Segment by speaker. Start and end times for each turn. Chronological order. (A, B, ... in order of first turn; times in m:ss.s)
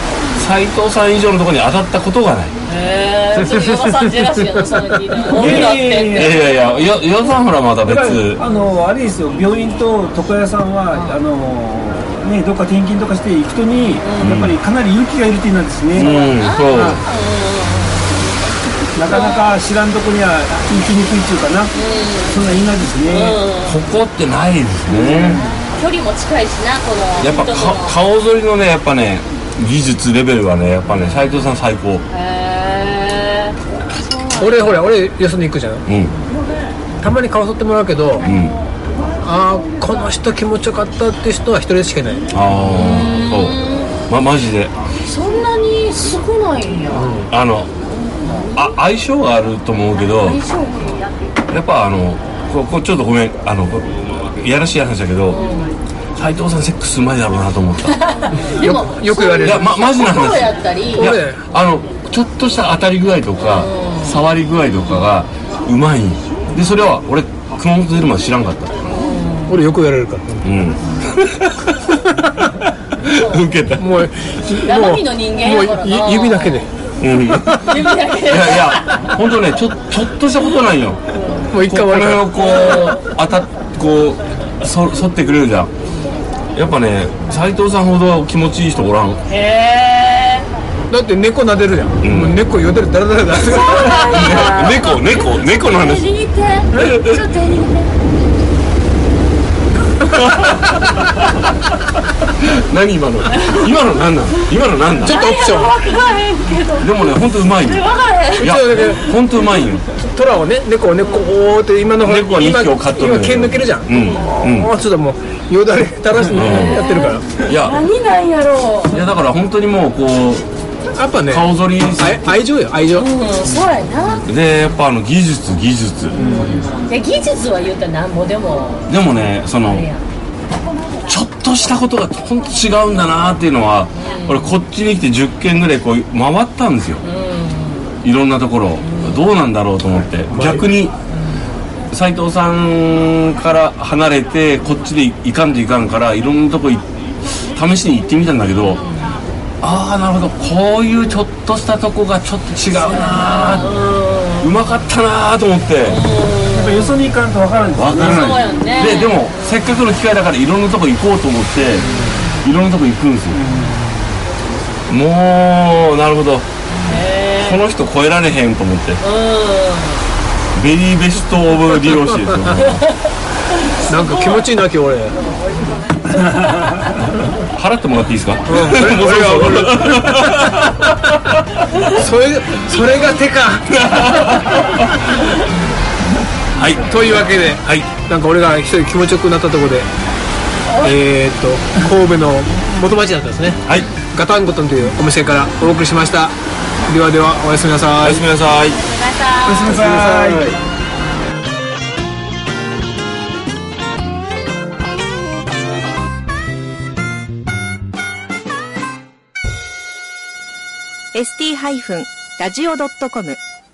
0:00.3-0:02.5 A
0:02.7-0:06.5 B
0:03.3-0:05.2 C
0:05.3-0:06.4 D
0:05.3-0:08.4 A
0:07.8-0:17.0 D
0:14.0-0:14.4 B
0:14.2-0:14.6 A
0:15.9-0:17.0 A
0:16.0-0:18.3 B
0:18.9-0:21.7 D
0:19.1-0:19.6 B
0:21.7-0:22.5 B
0:22.2-0:23.4 D
0:23.1-0:23.8 B
0:23.6-0:25.4 A
0:24.9-0:25.5 D
0:25.3-0:28.0 B
0:27.2-0:32.0 A
0:31.0-0:31.3 B
0:32.1-0:34.9 B
0:34.4-0:35.8 C
0:35.8-0:36.1 A
0:37.0-0:38.3 C
0:38.2-0:38.5 A
0:39.2-0:42.3 C
0:42.3-0:44.7 A
0:42.7-0:43.9 B
0:45.0-0:47.2 B
0:46.9-0:47.3 C
0:47.3-0:47.7 A
0:48.3-0:48.5 B
0:48.5-0:50.4 A
0:50.0-0:51.1 B
0:51.5-0:55.4 A
0:55.3-0:55.7 B
0:56.2-0:58.1 A
0:57.9-1:01.2 B
0:58.4-0:59.7 C
0:59.4-1:08.7 A
1:01.0-1:01.4 C
1:03.4-1:04.2 B
1:08.8-1:09.6 B
1:09.5-1:10.4 C
1:10.4-1:11.5 A
1:12.1-1:12.5 C
1:13.0-1:13.8 A
1:13.1-1:13.4 B
1:13.8-1:16.7 C
1:14.6-1:16.7 B
1:17.0-1:21.0 A
1:17.3-1:17.7 C
1:17.6-1:19.1 B
1:21.1-1:21.5 B
1:21.5-1:22.6 C
1:21.6-1:25.7 A
1:22.3-1:23.0 B
1:26.5-1:29.2 A
1:29.3-1:30.5 B
1:30.9-1:34.6 C
1:32.0-1:32.4 A
1:33.4-1:37.9 B
1:33.5-1:36.1 A
1:36.7-1:37.2 A
1:40.1-1:41.4 A
1:42.4-1:45.2 A
1:43.3-1:43.6 B
1:45.0-1:45.8 C
1:45.0-1:49.2 B
1:46.8-1:49.8 A
1:48.4-1:49.0 C
1:49.9-1:53.9 C
1:52.0-1:54.7 A
1:54.4-1:57.2 C
1:56.3-1:56.9 A
1:56.3-1:59.0 B
1:57.4-1:57.8 A
1:58.9-2:00.4 A
2:01.0-2:03.1 C
2:01.3-2:02.3 A
2:02.9-2:04.2 B
2:04.2-2:06.2 A
2:06.1-2:06.7 C
2:06.1-2:08.9 B
2:08.9-2:09.8 A
2:09.6-2:10.0 B
2:11.1-2:17.0 A
2:13.9-2:14.5 B
2:17.0-2:17.9 B
2:18.0-2:20.9 A
2:18.8-2:19.2 B
2:20.3-2:20.6 C
2:21.9-2:26.8 A
2:27.5-2:28.8 A
2:28.7-2:29.2 B
2:29.6-2:33.7 A
2:32.8-2:34.5 B
2:34.4-2:36.0 A
2:35.8-2:37.0 B
2:36.5-2:38.4 D
2:37.7-2:41.8 A
2:38.0-2:39.8 B
2:41.7-2:42.5 B
2:42.4-2:43.4 A
2:43.3-2:44.0 D
2:44.9-2:46.5 A
2:46.7-2:47.6 B
2:47.4-2:49.0 A
2:49.0-2:50.0 B
2:50.5-2:52.8 A
2:53.5-2:54.5 B
2:53.9-2:55.2 C
2:56.1-2:56.9 D
2:57.6-3:01.4 A
2:58.5-3:00.9 C
3:01.8-3:04.5 C
3:03.7-3:05.1 A
3:06.6-3:07.8 A
3:06.8-3:09.9 C
3:10.7-3:11.0 B
3:10.8-3:16.3 C
3:16.8-3:18.2 C
3:18.0-3:18.8 A
3:18.8-3:19.8 B
3:19.4-3:20.6 D
3:19.7-3:20.5 A
3:19.7-3:20.4 C
3:31.1-3:33.4 E